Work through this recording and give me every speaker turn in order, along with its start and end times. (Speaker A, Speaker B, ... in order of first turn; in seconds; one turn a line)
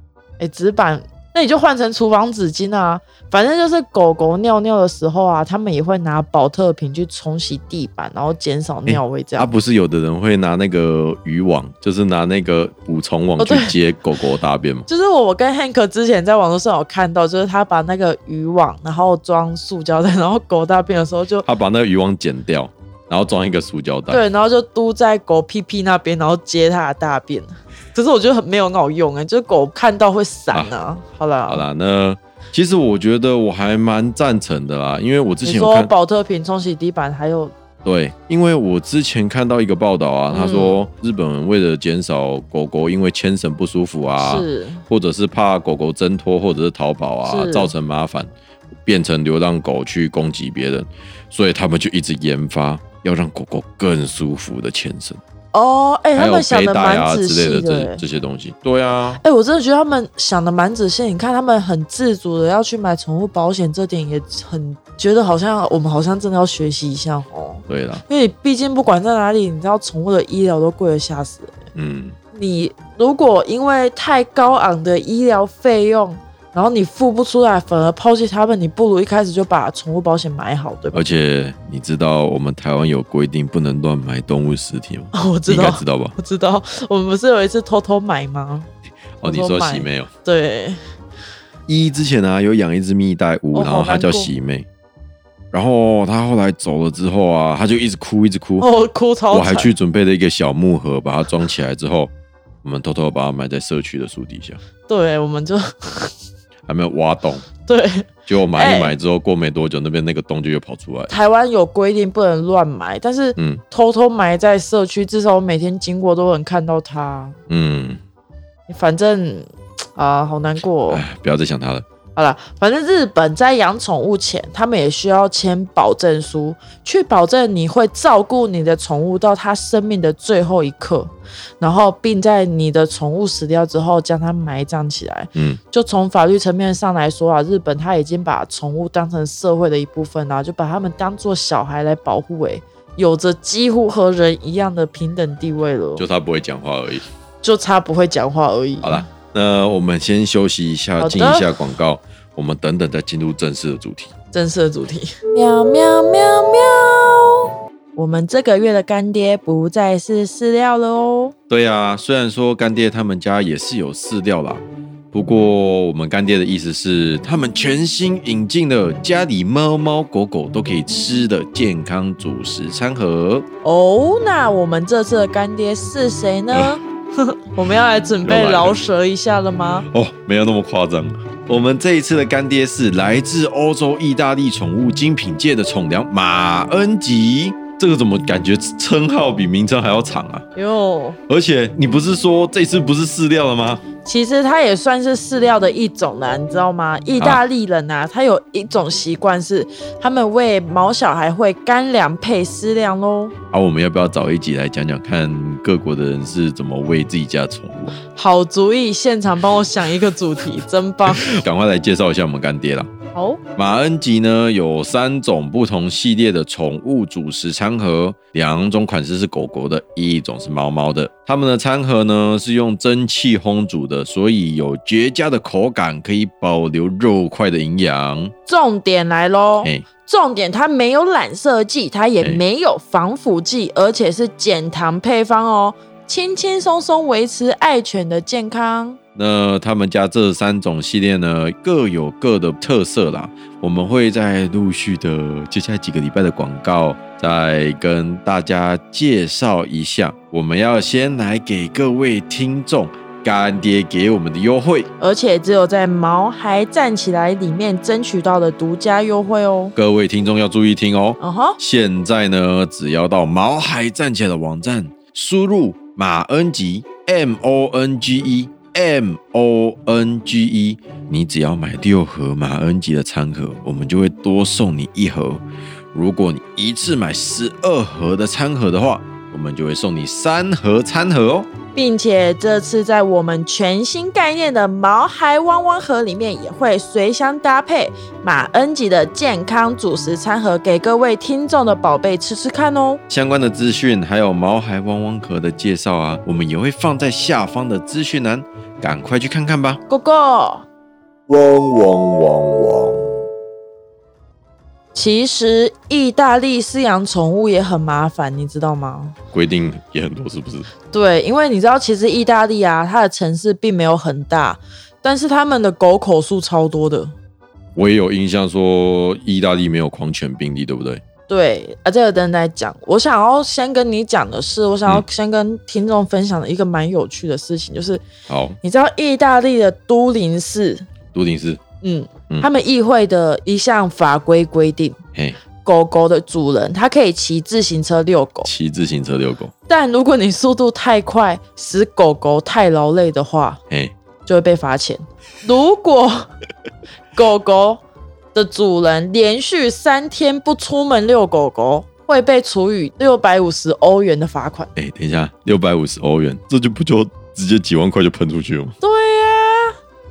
Speaker A: 0.4-9.5
Speaker B: 8.9-14.9
Speaker A: 13.4-13.8
Speaker A: 14.9-21.4
Speaker B: 21.4-24.2
Speaker A: 24.1-31.6
Speaker B: 31.5-35.9
Speaker A: 35.4-37.5
Speaker B: 37.8-48.3
Speaker A: 40.3-40.8
Speaker A: 44.2-44.8
Speaker A: 47.2-47.7
Speaker B: 48.9-55.2
Speaker A: 55.5-58.0
Speaker B: 56.1-59.2
Speaker A: 59.2-71.6
Speaker B: 67.7-68.0
Speaker B: 71.8-72.2
Speaker A: 72.3-81.1
Speaker B: 80.9-86.2
Speaker A: 85.1-88.7
Speaker B: 89.2-90.1
Speaker A: 89.2-90.8
Speaker B: 91.7-94.7
Speaker A: 93.5-94.3
Speaker B: 95.5-98.7
Speaker A: 98.6-99.7
Speaker B: 99.3-102.1
Speaker B: 102.6-104.6
Speaker A: 104.8-106.1
Speaker B: 106.7-107.5
Speaker A: 107.6-109.0
Speaker B: 108.3-111.2
Speaker A: 111.1-117.4
Speaker B: 117.5-118.0
Speaker A: 118.7-121.0
Speaker B: 120.9-121.8
Speaker A: 122.2-146.1
Speaker B: 135.3-135.6
Speaker B: 146.0-147.1
Speaker A: 147.4-149.1
Speaker B: 148.8-154.1
Speaker A: 151.0-151.5
Speaker A: 154.3-161.3
Speaker B: 161.5-173.5
Speaker A: 173.6-179.9
Speaker B: 178.2-178.9
Speaker B: 179.9-190.5
Speaker A: 190.6-191.2
Speaker B: 191.3-193.9
Speaker A: 194.0-203.3
Speaker B: 197.2-197.4
Speaker B: 203.5-208.0
Speaker A: 208.1-211.4
Speaker B: 211.1-212.9
Speaker A: 213.2-213.4
Speaker B: 213.6-228.3
Speaker A: 228.5-239.0
Speaker B: 239.2-254.9
Speaker A: 255.0-259.7
Speaker B: 259.8-275.4
Speaker A: 261.2-261.6
Speaker B: 275.9-281.5
Speaker A: 281.8-293.0
Speaker B: 293.1-299.8
Speaker A: 299.9-300.6
Speaker B: 301.3-303.3
Speaker A: 304.9-309.1
Speaker B: 309.3-310.7
Speaker A: 310.9-317.1
Speaker B: 317.8-321.0
Speaker A: 321.3-328.0
Speaker B: 328.3-328.6
Speaker A: 328.6-330.8
Speaker B: 331.1-331.6
Speaker A: 331.8-335.0
Speaker B: 335.1-335.4
Speaker A: 335.6-338.5
Speaker B: 338.4-339.5
Speaker A: 339.7-343.6
Speaker A: 344.3-346.3
Speaker A: 347.1-347.8
Speaker A: 348.3-354.7
Speaker B: 354.8-358.7
Speaker A: 358.8-359.8